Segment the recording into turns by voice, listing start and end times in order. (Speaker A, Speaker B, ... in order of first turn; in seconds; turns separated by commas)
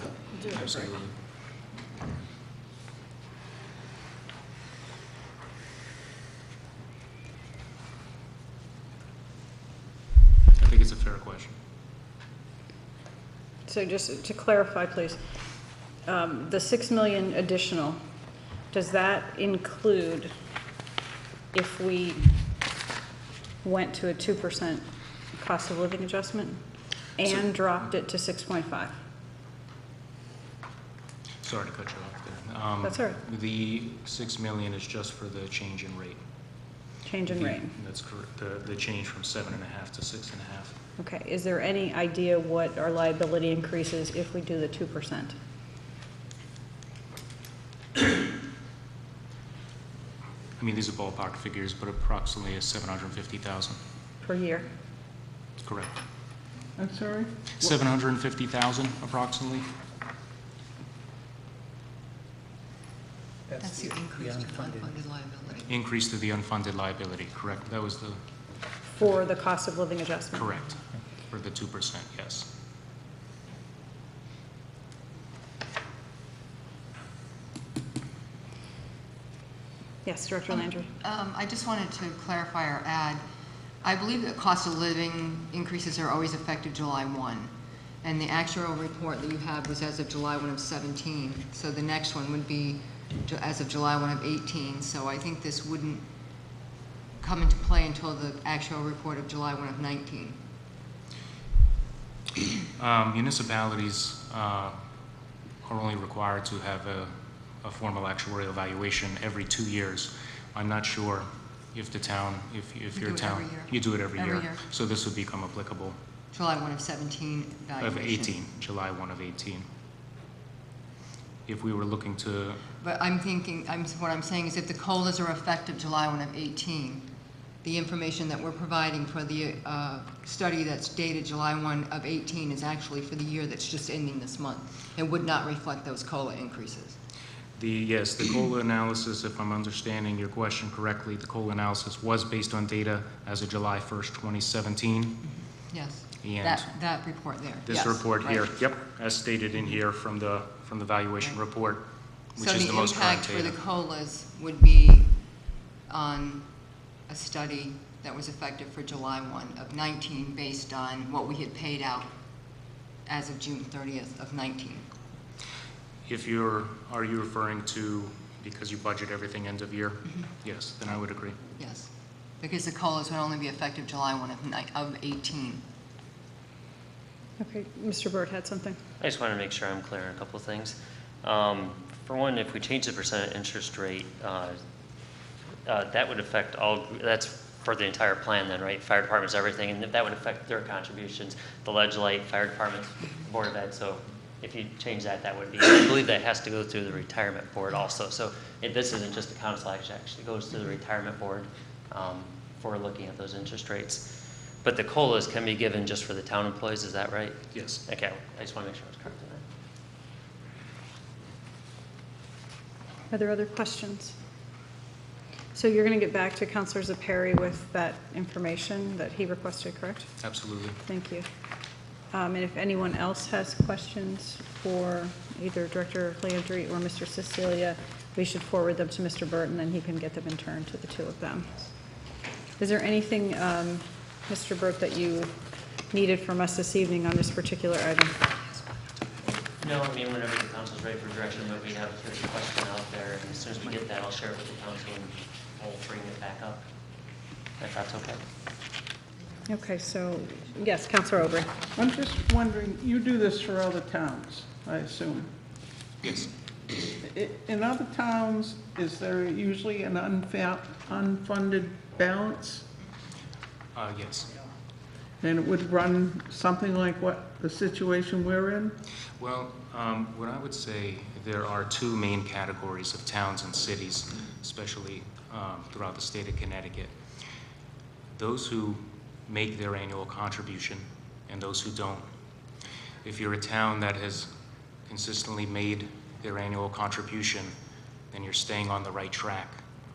Speaker A: 0.4-1.1, Speaker A: 10.6-11.6, Speaker B: 13.7-15.2, Speaker B: 16.1-18.0, Speaker B: 18.7-20.3, Speaker B: 21.5-22.3, Speaker B: 23.6-24.8, Speaker B: 25.4-26.6, Speaker B: 27.2-28.9, Speaker A: 31.4-36.2, Speaker B: 32.8-33.2, Speaker B: 37.0-37.7, Speaker A: 37.3-40.7, Speaker B: 41.0-45.3, Speaker A: 50.6-53.8, Speaker B: 54.2-54.7, Speaker A: 55.6-55.9, Speaker C: 56.8-57.3, Speaker A: 57.6-59.7, Speaker D: 63.6-65.7, Speaker A: 65.7-68.2, Speaker B: 68.9-70.5, Speaker A: 70.3-70.8, Speaker A: 71.3-72.5, Speaker B: 80.0-80.9, Speaker D: 80.5-83.2, Speaker D: 83.8-87.5, Speaker D: 88.0-96.0, Speaker D: 97.2-100.4, Speaker A: 102.8-104.8, Speaker A: 105.6-116.0, Speaker D: 112.9-114.6, Speaker D: 116.3-118.3, Speaker A: 117.8-119.7, Speaker A: 121.5-122.6, Speaker D: 122.8-127.1, Speaker D: 127.6-137.0, Speaker A: 137.6-145.2, Speaker D: 145.7-148.5, Speaker A: 146.2-146.7, Speaker A: 147.7-153.6, Speaker D: 152.4-155.1, Speaker D: 155.9-156.5, Speaker D: 157.1-162.1, Speaker D: 163.1-164.9, Speaker A: 166.1-171.4, Speaker D: 171.6-175.6, Speaker B: 177.4-178.8, Speaker E: 179.0-184.6, Speaker E: 185.7-204.0, Speaker E: 204.6-209.4, Speaker A: 207.5-207.8, Speaker B: 213.1-214.2, Speaker B: 215.5-220.1, Speaker A: 220.2-220.8, Speaker B: 220.8-221.2, Speaker B: 222.1-231.7, Speaker B: 232.6-235.3, Speaker B: 235.9-238.3, Speaker E: 239.5-246.6, Speaker E: 247.6-248.2, Speaker B: 249.4-251.5, Speaker C: 251.7-255.3, Speaker A: 256.0-256.3, Speaker C: 257.0-262.6, Speaker A: 263.7-264.3, Speaker C: 265.2-268.7, Speaker A: 269.2-276.9, Speaker A: 278.1-282.1, Speaker A: 283.0-284.3, Speaker A: 284.9-287.5, Speaker A: 288.1-289.6